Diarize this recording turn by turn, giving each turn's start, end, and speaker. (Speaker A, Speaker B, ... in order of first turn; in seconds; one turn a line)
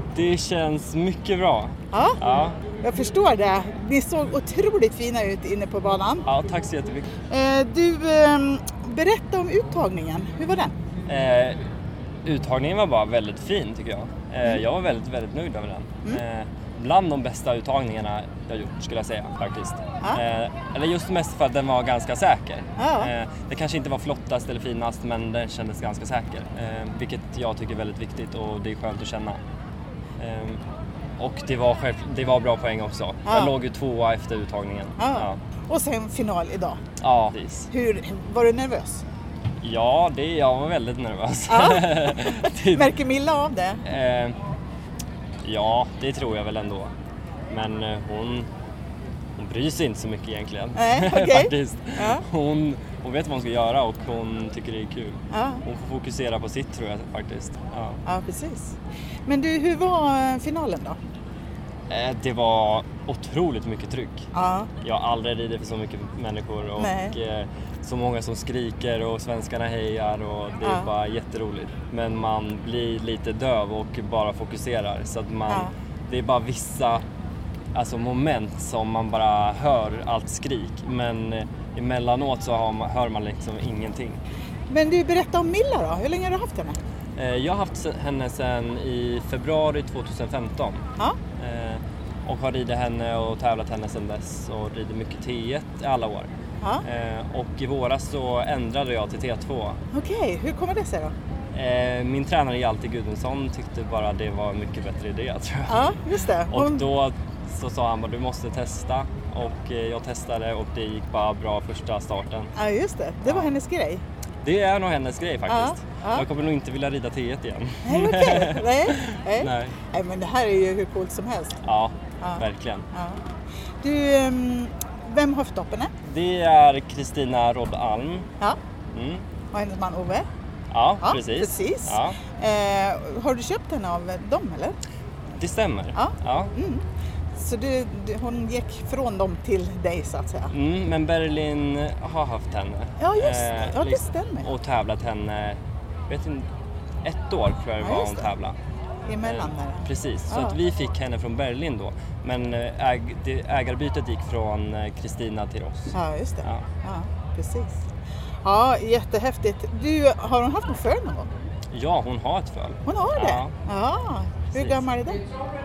Speaker A: 0.1-2.6
Speaker B: 1.9-2.2
Speaker B: 2.8-6.3
Speaker A: 6.3-7.1
Speaker B: 7.3-10.7
Speaker A: 11.1-11.6
Speaker A: 12.2-29.4
Speaker B: 22.8-23.1
Speaker A: 30.2-30.6
Speaker A: 31.2-35.4
Speaker B: 33.2-33.5
Speaker B: 35.0-36.8
Speaker A: 37.0-37.7
Speaker B: 37.7-39.0
Speaker A: 39.6-42.9
Speaker B: 41.5-43.8
Speaker A: 43.9-44.4
Speaker A: 45.4-46.9
Speaker A: 47.5-48.5
Speaker A: 49.4-58.0
Speaker B: 50.8-52.2
Speaker B: 55.3-55.6
Speaker B: 58.0-61.0
Speaker A: 61.9-64.3
Speaker B: 64.3-64.7
Speaker A: 64.8-77.0
Speaker B: 66.8-67.2
Speaker B: 70.6-70.9
Speaker A: 77.7-84.2
Speaker B: 84.7-86.8
Speaker A: 87.2-90.9
Speaker A: 91.4-96.3
Speaker A: 96.8-99.8
Speaker B: 99.9-101.1
Speaker A: 101.5-105.9
Speaker B: 105.7-106.9
Speaker A: 106.5-112.5
Speaker B: 112.6-114.0
Speaker A: 113.2-113.5
Speaker A: 114.4-119.8
Speaker B: 115.5-116.3
Speaker B: 117.8-121.6
Speaker A: 121.6-122.9
Speaker B: 122.2-123.2
Speaker B: 123.8-125.9
Speaker A: 126.0-128.3
Speaker A: 128.9-129.2
Speaker B: 129.5-130.3
Speaker A: 130.7-132.2
Speaker B: 131.0-134.8
Speaker A: 135.4-136.5
Speaker B: 135.9-140.5
Speaker A: 140.5-146.5
Speaker B: 143.0-144.5
Speaker A: 147.0-148.6
Speaker B: 147.8-148.3
Speaker B: 149.1-150.6
Speaker A: 149.2-156.6
Speaker B: 155.9-157.8
Speaker B: 158.4-161.3
Speaker A: 161.7-163.5
Speaker B: 162.9-165.2